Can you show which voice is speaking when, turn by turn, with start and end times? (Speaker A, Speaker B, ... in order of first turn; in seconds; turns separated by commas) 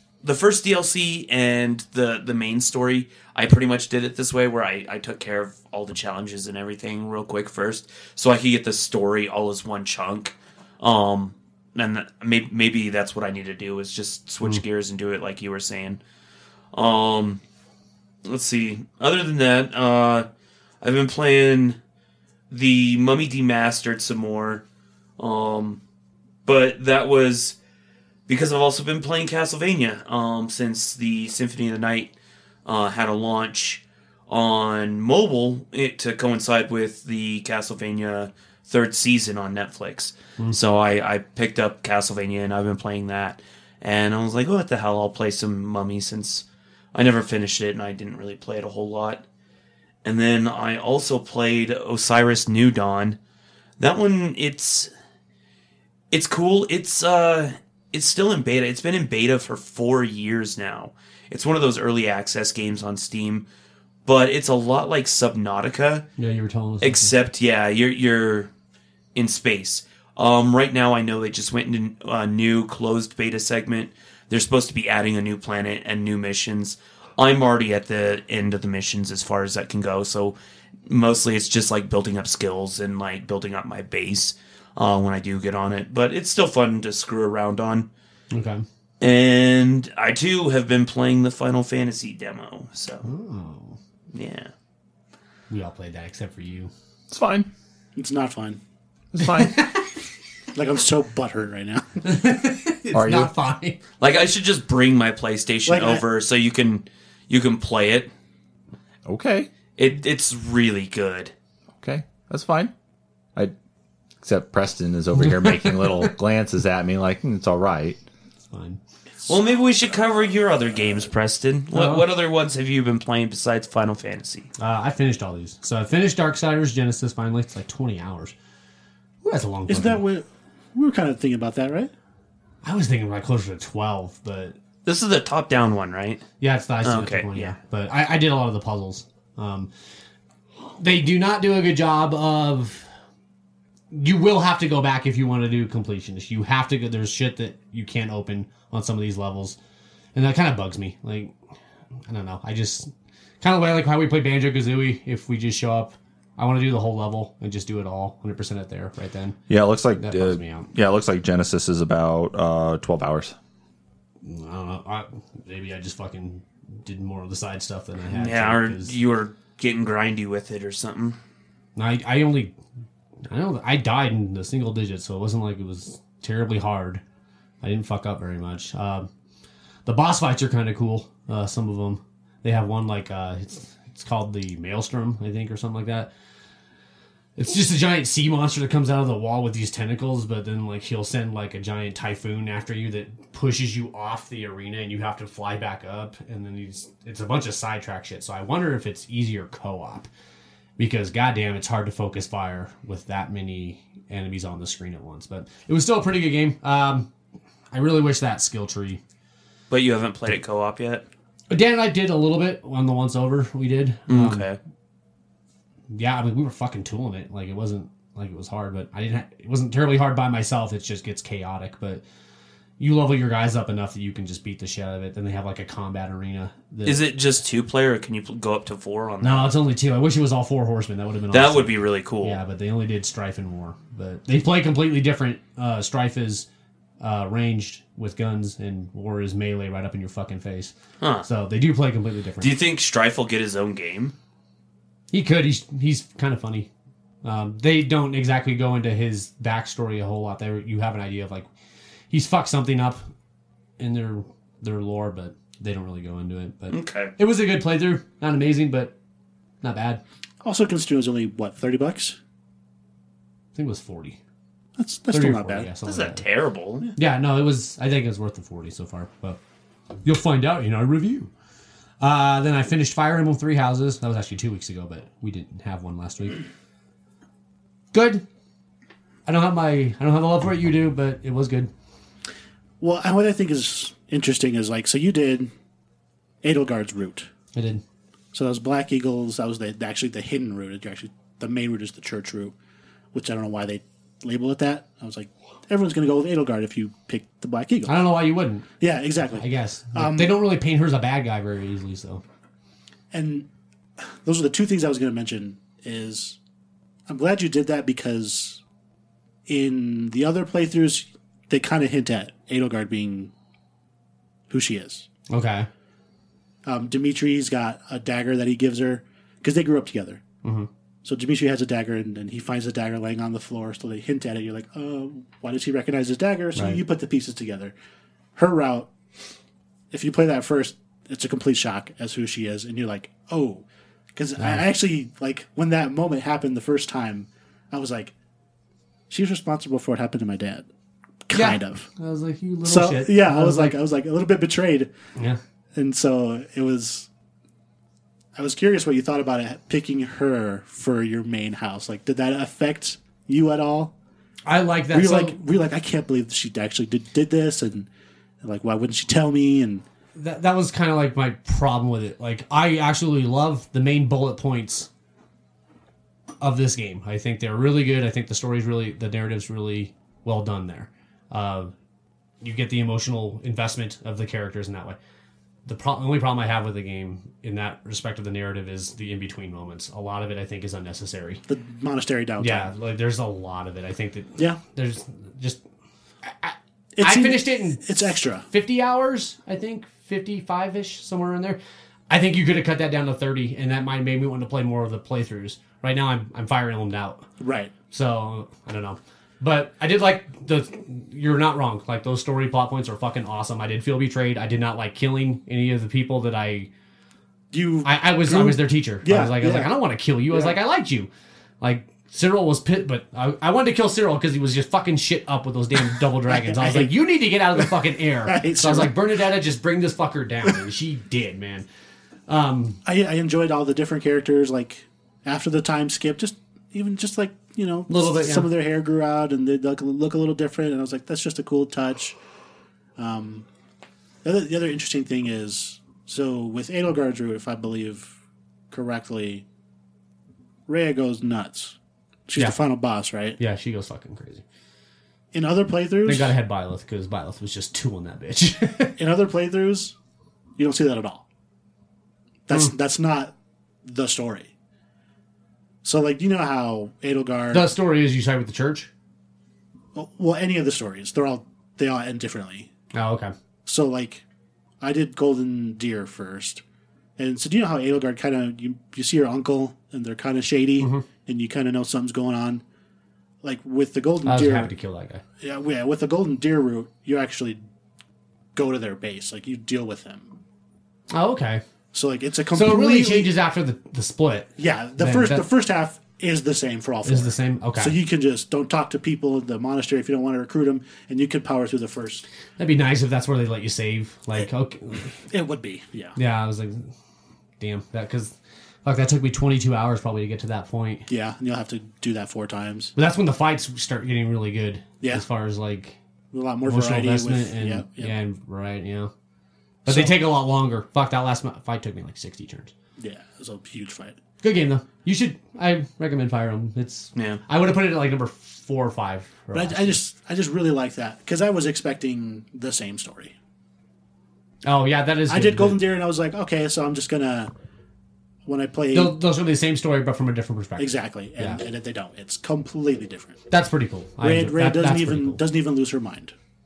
Speaker A: 0.2-16.0, Speaker A: 16.7-17.4, Speaker A: 18.2-20.2, Speaker A: 20.8-21.8, Speaker A: 22.5-24.6, Speaker A: 25.2-25.8, Speaker A: 26.4-27.6, Speaker A: 28.3-32.1, Speaker A: 32.6-49.2, Speaker A: 50.0-53.2, Speaker A: 53.8-54.9, Speaker A: 56.1-63.5, Speaker A: 64.0-66.0, Speaker B: 66.2-67.1, Speaker A: 66.8-68.5, Speaker A: 69.1-80.3, Speaker A: 80.9-87.9, Speaker B: 88.3-88.6, Speaker A: 89.0-93.1, Speaker B: 93.0-93.8, Speaker A: 94.1-94.5, Speaker B: 95.5-96.7, Speaker C: 97.1-97.5, Speaker D: 98.0-98.6, Speaker B: 99.2-99.9, Speaker C: 99.2-99.6, Speaker D: 100.5-102.0, Speaker B: 102.0-103.8, Speaker C: 102.9-103.3, Speaker A: 104.0-108.1, Speaker D: 105.7-106.0, Speaker C: 109.0-109.5, Speaker A: 109.8-111.3, Speaker C: 111.8-112.7, Speaker C: 114.2-118.0, Speaker B: 115.1-116.1, Speaker B: 118.5-118.8, Speaker A: 119.2-124.5, Speaker B: 121.7-122.1, Speaker B: 124.6-128.3, Speaker B: 129.2-130.0, Speaker D: 129.7-131.9, Speaker B: 132.6-134.6, Speaker A: 134.8-136.2, Speaker B: 136.4-139.7, Speaker A: 136.8-137.5, Speaker B: 140.8-142.9, Speaker B: 143.9-149.6, Speaker B: 150.1-151.3, Speaker B: 152.1-159.4, Speaker C: 159.5-163.3, Speaker B: 159.9-160.7, Speaker B: 164.2-168.9, Speaker A: 168.1-171.2, Speaker B: 171.8-172.5, Speaker B: 173.3-177.0, Speaker B: 177.6-179.1, Speaker B: 179.8-186.1, Speaker B: 187.4-200.1, Speaker B: 200.8-207.1, Speaker B: 207.7-209.0, Speaker A: 209.7-211.0, Speaker B: 211.5-214.5, Speaker A: 214.1-214.6, Speaker B: 215.9-222.0, Speaker B: 222.8-227.0, Speaker A: 226.8-229.5, Speaker B: 229.2-236.5, Speaker A: 231.3-232.4, Speaker B: 237.0-242.5, Speaker A: 241.0-241.2, Speaker A: 242.4-244.1, Speaker B: 245.1-246.7, Speaker B: 247.2-251.5, Speaker B: 252.1-253.0, Speaker B: 253.8-258.9, Speaker A: 256.7-257.1, Speaker B: 259.6-260.0, Speaker D: 260.4-262.2, Speaker B: 263.5-264.2, Speaker D: 264.8-265.7, Speaker B: 265.1-266.2, Speaker A: 265.8-266.9, Speaker B: 266.9-269.4, Speaker B: 270.0-271.3, Speaker B: 272.0-276.4, Speaker B: 277.9-278.2, Speaker B: 279.2-281.7, Speaker D: 282.8-285.5, Speaker D: 286.4-287.3, Speaker B: 287.5-287.8, Speaker D: 288.3-292.5, Speaker D: 293.1-298.0, Speaker B: 297.9-298.7, Speaker D: 298.8-300.4, Speaker B: 299.3-302.2, Speaker D: 303.1-303.5, Speaker D: 304.0-306.4, Speaker D: 307.1-308.6, Speaker D: 309.5-313.3, Speaker D: 314.5-315.1, Speaker B: 315.3-315.7, Speaker D: 316.6-320.2, Speaker B: 320.4-320.7, Speaker D: 321.0-327.7, Speaker B: 326.6-326.8, Speaker D: 328.4-328.9, Speaker D: 329.9-338.1, Speaker B: 334.4-334.6, Speaker D: 339.1-340.7, Speaker D: 341.2-341.9, Speaker B: 341.3-343.8, Speaker D: 342.6-344.9, Speaker D: 345.7-347.1, Speaker D: 348.4-353.9, Speaker B: 354.4-355.4, Speaker D: 354.9-357.9, Speaker D: 358.4-359.8, Speaker B: 360.1-364.9, Speaker B: 366.4-371.7, Speaker B: 372.4-375.0, Speaker B: 375.6-381.4, Speaker D: 381.5-382.7, Speaker B: 382.4-385.6, Speaker B: 386.2-391.6, Speaker D: 386.9-388.5, Speaker B: 392.1-397.2, Speaker D: 397.4-397.7, Speaker B: 397.9-406.7, Speaker D: 407.5-409.7, Speaker B: 407.8-411.1, Speaker B: 411.6-421.6, Speaker D: 416.3-416.9, Speaker D: 418.2-419.0, Speaker B: 422.3-422.8, Speaker D: 422.8-432.2, Speaker B: 427.9-428.5, Speaker D: 433.0-433.4, Speaker D: 434.2-438.1, Speaker D: 438.7-439.4, Speaker D: 440.7-441.8, Speaker D: 442.3-443.4, Speaker B: 443.4-444.4, Speaker D: 445.3-446.4, Speaker B: 446.0-449.0, Speaker D: 449.0-449.9, Speaker D: 450.6-451.2, Speaker D: 452.5-453.3, Speaker D: 453.8-454.5, Speaker D: 455.8-457.7, Speaker B: 457.5-458.9, Speaker D: 459.9-462.7, Speaker B: 462.9-463.3, Speaker D: 463.6-464.2, Speaker D: 464.8-466.6, Speaker D: 467.2-472.6, Speaker B: 470.8-471.1, Speaker D: 473.4-474.7, Speaker B: 474.2-475.2, Speaker D: 475.4-477.6, Speaker D: 478.5-480.3, Speaker B: 481.1-481.6, Speaker D: 481.9-483.3, Speaker B: 482.5-485.5, Speaker D: 484.6-492.2, Speaker B: 487.0-487.9, Speaker B: 492.6-495.1, Speaker D: 495.2-496.1, Speaker B: 496.1-496.9, Speaker B: 497.6-501.1, Speaker D: 501.1-502.9, Speaker B: 502.9-506.0, Speaker D: 506.3-508.1, Speaker B: 506.6-509.1, Speaker D: 509.9-510.1, Speaker B: 509.9-512.7, Speaker D: 513.0-514.2, Speaker B: 514.4-520.0, Speaker A: 517.1-517.4, Speaker D: 519.5-523.3, Speaker B: 524.6-525.8, Speaker D: 525.3-527.5, Speaker D: 528.5-529.2, Speaker B: 528.9-531.6, Speaker D: 530.8-533.4, Speaker B: 533.5-535.4, Speaker D: 534.2-536.3